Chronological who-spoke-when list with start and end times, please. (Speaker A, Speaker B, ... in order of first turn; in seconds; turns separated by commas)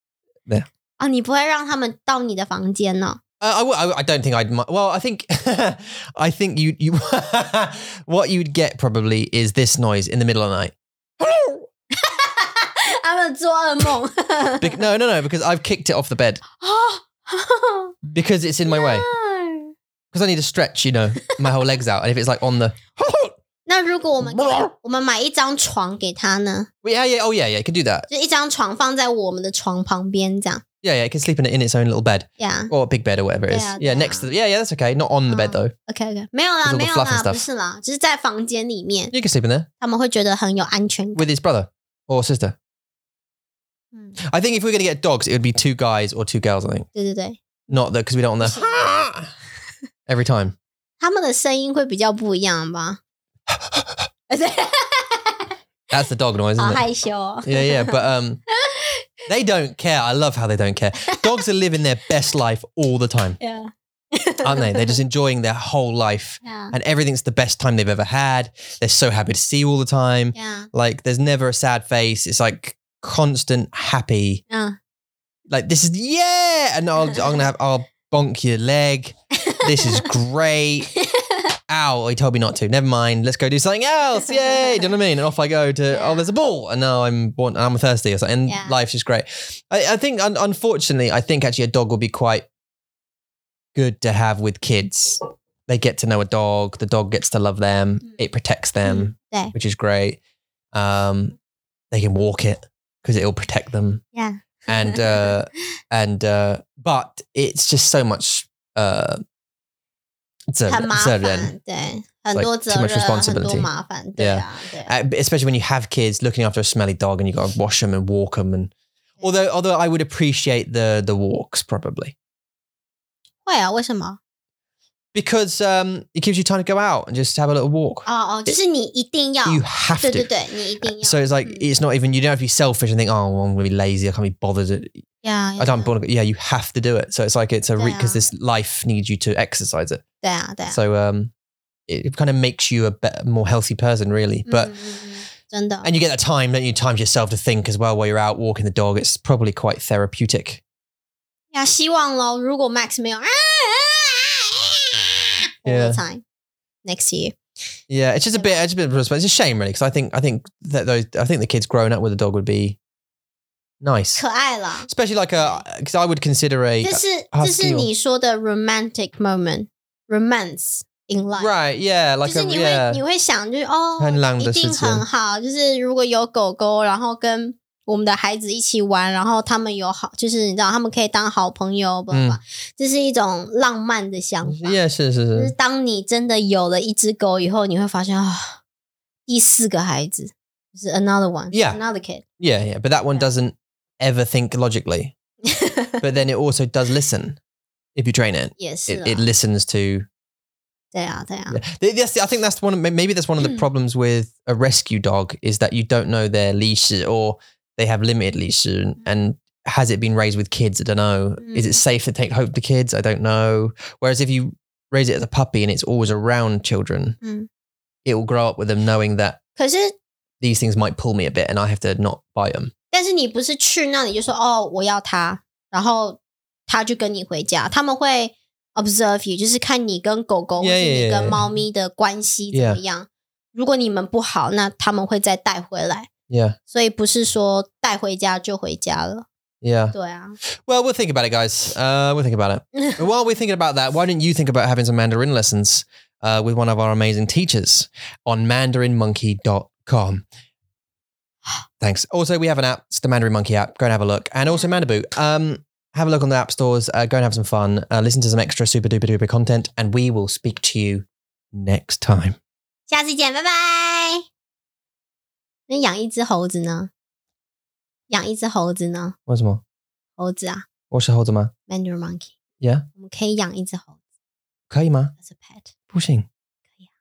Speaker A: 1.0-3.2, Speaker B: 3.4-11.7, Speaker A: 11.9-14.8, Speaker B: 14.6-16.4, Speaker A: 16.6-17.9, Speaker B: 18.1-19.1, Speaker A: 18.7-19.7, Speaker B: 20.1-23.3, Speaker A: 21.2-21.6, Speaker A: 23.6-26.7, Speaker B: 24.2-24.7, Speaker B: 26.8-28.1, Speaker A: 28.1-30.6, Speaker B: 30.8-35.7, Speaker A: 32.4-32.7, Speaker A: 33.5-34.3, Speaker A: 35.3-39.1, Speaker B: 36.6-37.4, Speaker B: 39.1-39.7, Speaker A: 39.8-41.3, Speaker B: 41.1-42.5, Speaker B: 44.2-46.9, Speaker A: 46.9-47.4, Speaker B: 47.7-49.3, Speaker A: 48.4-48.8, Speaker B: 50.1-50.5, Speaker A: 51.0-53.0, Speaker A: 54.3-55.5, Speaker B: 55.9-56.8, Speaker A: 56.6-58.0, Speaker B: 57.4-58.4, Speaker A: 58.5-59.0, Speaker B: 59.3-63.4, Speaker A: 63.4-65.0, Speaker B: 64.4-74.4, Speaker A: 66.4-66.7, Speaker A: 70.3-70.7, Speaker A: 74.5-74.8, Speaker B: 75.5-80.9, Speaker A: 79.3-80.1, Speaker A: 80.9-81.4, Speaker B: 81.7-92.5, Speaker A: 84.3-84.8, Speaker A: 85.9-86.3, Speaker A: 88.5-88.8, Speaker B: 93.7-100.2, Speaker A: 98.8-99.5, Speaker B: 100.7-101.3, Speaker B: 101.9-104.0, Speaker A: 104.1-105.4, Speaker B: 104.7-109.2, Speaker B: 110.5-111.5, Speaker A: 110.7-114.9, Speaker B: 112.3-118.7, Speaker B: 119.2-122.1, Speaker A: 123.4-124.2, Speaker B: 125.1-128.6, Speaker A: 128.1-131.7, Speaker B: 129.4-130.3, Speaker B: 130.8-135.0, Speaker A: 135.2-135.9, Speaker B: 135.6-140.0, Speaker A: 137.8-138.2, Speaker A: 140.2-140.8, Speaker B: 140.7-141.3, Speaker B: 141.9-144.7, Speaker A: 144.4-145.9, Speaker B: 145.8-150.6, Speaker A: 151.5-156.2, Speaker B: 155.7-156.0, Speaker A: 156.8-157.4, Speaker B: 157.9-162.8, Speaker A: 158.3-158.6, Speaker B: 163.8-164.2, Speaker A: 164.2-165.6, Speaker B: 164.9-167.9, Speaker A: 166.8-171.5, Speaker B: 171.4-173.0, Speaker A: 172.2-184.8, Speaker B: 174.0-175.0, Speaker B: 182.1-182.4, Speaker B: 184.4-185.5, Speaker A: 185.3-188.6, Speaker A: 189.3-192.2, Speaker B: 191.5-191.8, Speaker B: 192.4-195.1, Speaker A: 195.4-196.0, Speaker B: 196.0-197.4, Speaker B: 197.9-200.1, Speaker A: 198.6-199.3, Speaker A: 200.9-201.6, Speaker B: 201.5-217.2, Speaker A: 211.4-211.8, Speaker A: 217.2-217.5, Speaker B: 218.0-219.4, Speaker A: 219.6-220.0, Speaker B: 220.4-222.7, Speaker A: 222.9-236.1, Speaker B: 230.6-231.5, Speaker B: 232.5-232.8, Speaker B: 236.3-236.6, Speaker A: 236.7-239.2, Speaker B: 239.6-239.9, Speaker A: 239.9-240.4, Speaker B: 240.7-250.2, Speaker B: 251.8-262.4, Speaker A: 262.9-264.2, Speaker A: 265.7-266.9, Speaker A: 268.1-269.1, Speaker B: 269.3-269.6, Speaker A: 270.2-270.7, Speaker B: 270.9-271.5, Speaker A: 271.7-272.3, Speaker A: 272.9-273.9, Speaker B: 274.7-275.1, Speaker A: 275.2-275.7, Speaker B: 275.9-276.2